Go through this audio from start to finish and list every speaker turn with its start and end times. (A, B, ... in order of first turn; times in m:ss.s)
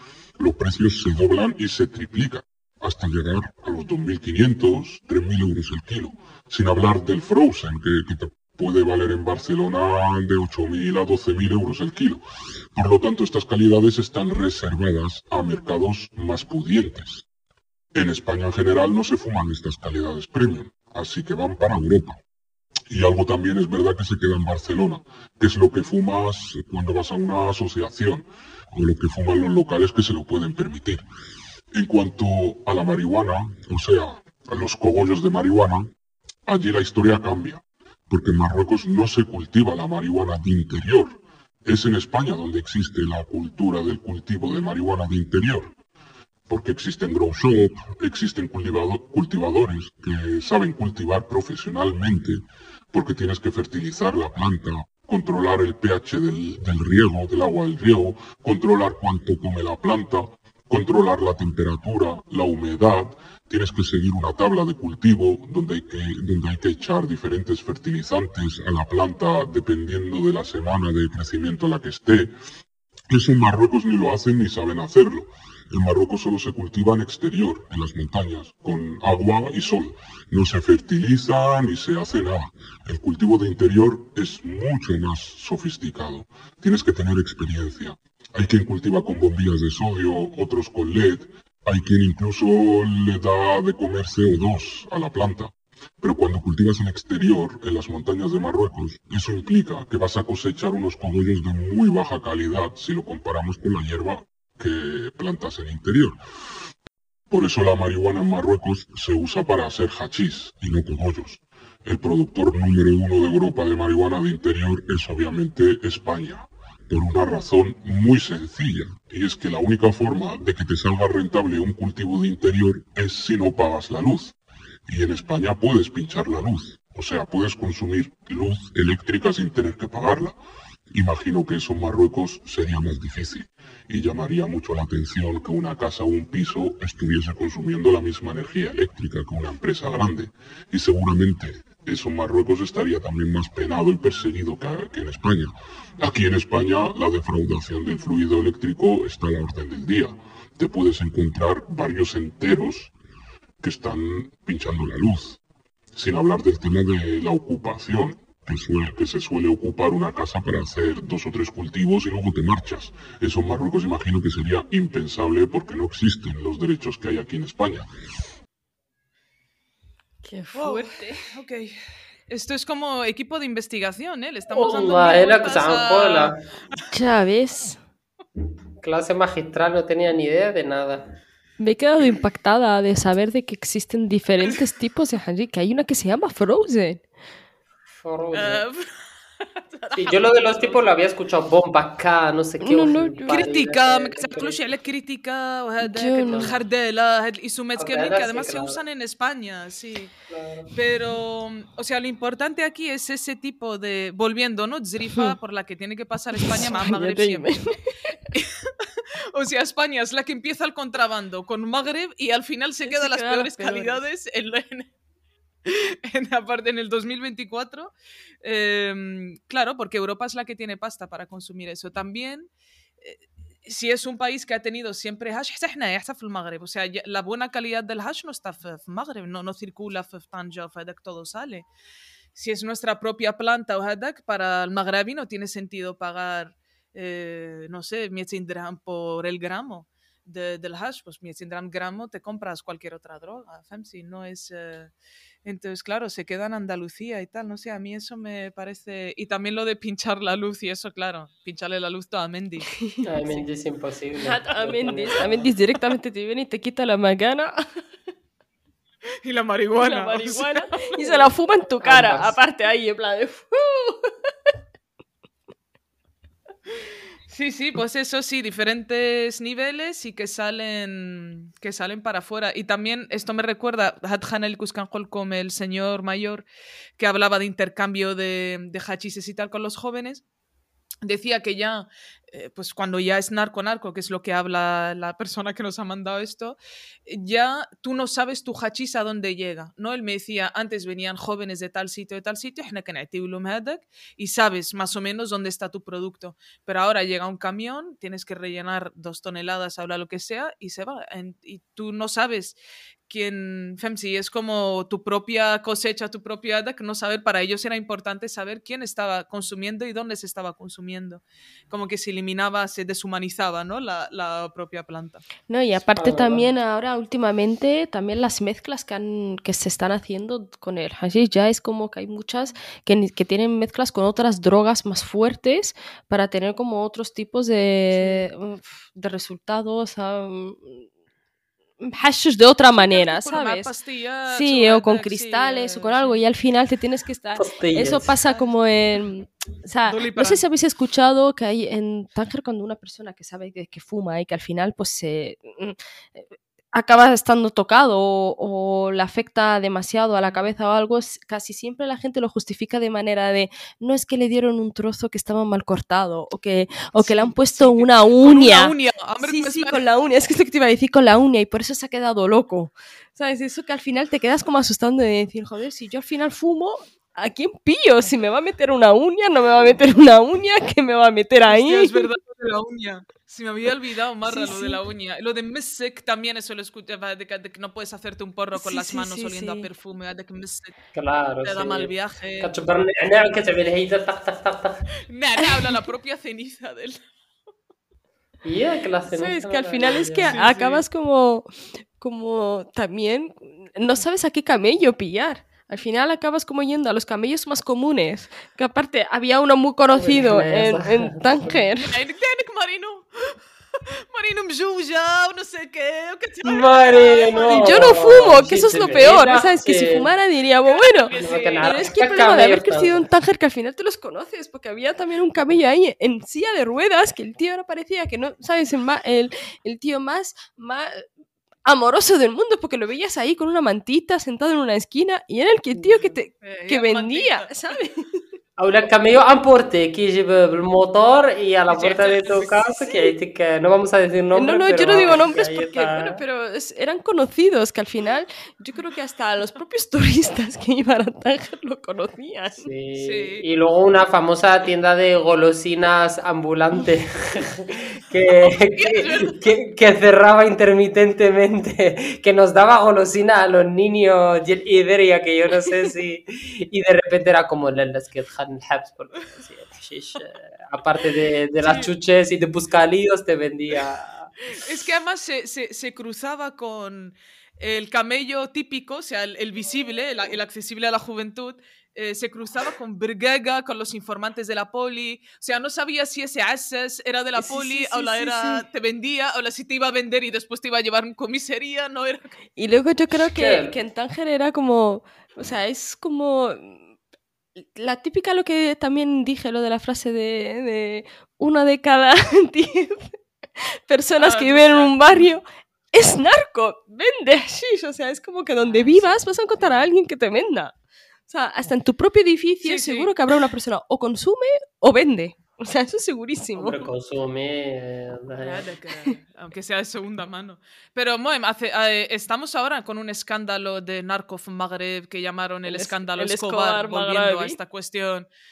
0:00.4-0:12.2 A
0:12.8-0:17.2 A
0:18.0-0:22.2 A
0:22.9-0:31.0 A
0:31.7-0:35.9 A
0:36.5-0:45.7 A
0:46.5-1:12.3 A
1:13.1-1:46.2 A
1:47.3-2:04.4 A
2:04.9-2:10.4 A
2:10.9-2:32.9 A
2:33.6-2:35.4 A
2:36.0-2:47.9 A
2:50.2-2:51.3 B
2:50.6-2:51.8 C
2:52.3-2:56.3 C
2:54.5-2:56.4 D
2:56.9-2:57.8 B
2:58.8-3:01.0 D
3:01.6-3:07.0 B
3:08.0-3:08.6 D
3:08.3-3:09.0 C
3:09.6-3:10.9 C
3:09.9-3:14.6 D
3:12.6-3:13.3 B
3:13.3-3:20.1 C
3:15.9-3:16.5 B
3:16.3-3:16.5 D
3:17.8-3:18.8 D
3:20.3-3:20.7 D
3:20.7-3:27.5 C
3:26.4-3:28.2 B
3:28.3-3:28.7 C
3:29.4-3:34.9 C
3:32.8-3:34.0 B
3:35.7-3:42.5 C
3:43.0-3:51.7 C
3:52.4-4:04.9 C
4:05.4-4:12.7 C
4:13.0-4:13.4 B
4:13.0-4:15.5 D
4:14.2-4:17.6 B
4:19.2-4:21.2 C
4:19.8-4:24.5 B
4:21.8-4:22.4 D
4:27.3-4:36.5 C
4:37.0-4:40.2 C
4:41.0-5:02.6 C
5:03.1-5:15.2 C
5:15.5-5:30.8 B
5:16.0-5:16.5 D
5:27.9-5:28.3 C
5:31.8-5:33.7 B
5:32.7-5:36.3 C
5:34.3-5:45.8 B
5:37.4-5:38.1 D
5:38.3-5:38.5 C
5:39.9-5:40.4 C
5:46.7-6:12.1 B
5:57.0-5:59.8 C
6:11.5-6:20.8 C
6:14.3-6:14.8 B
6:18.6-6:19.7 B
6:21.0-6:24.9 D
6:21.4-6:22.6 C
6:25.1-6:27.0 C
6:28.4-6:30.4 D
6:29.1-6:42.0 B
6:30.2-6:30.8 C
6:39.9-6:41.6 D
6:41.8-6:43.4 C
6:43.9-6:47.7 C
6:46.4-6:50.1 D
6:47.5-7:01.1 B
6:50.7-6:51.8 C
6:51.1-6:53.1 D
7:01.7-7:08.2 B
7:06.4-7:07.5 C
7:08.6-7:16.2 D
7:11.7-7:12.6 C
7:12.8-7:13.1 B
7:14.4-7:22.7 B
7:22.6-7:44.3 D
7:23.0-7:23.4 C
7:28.8-7:29.4 C
7:41.6-7:41.9 C
7:44.5-8:02.3 C
7:57.4-7:58.6 B
8:02.6-8:06.8 B
8:03.3-8:03.8 D
8:07.6-8:20.7 B
8:14.2-8:15.3 C
8:18.6-8:19.9 C
8:21.3-8:26.8 B
8:22.6-8:23.1 C
8:26.6-8:28.6 D
8:28.4-8:38.3 C
8:35.7-8:37.6 B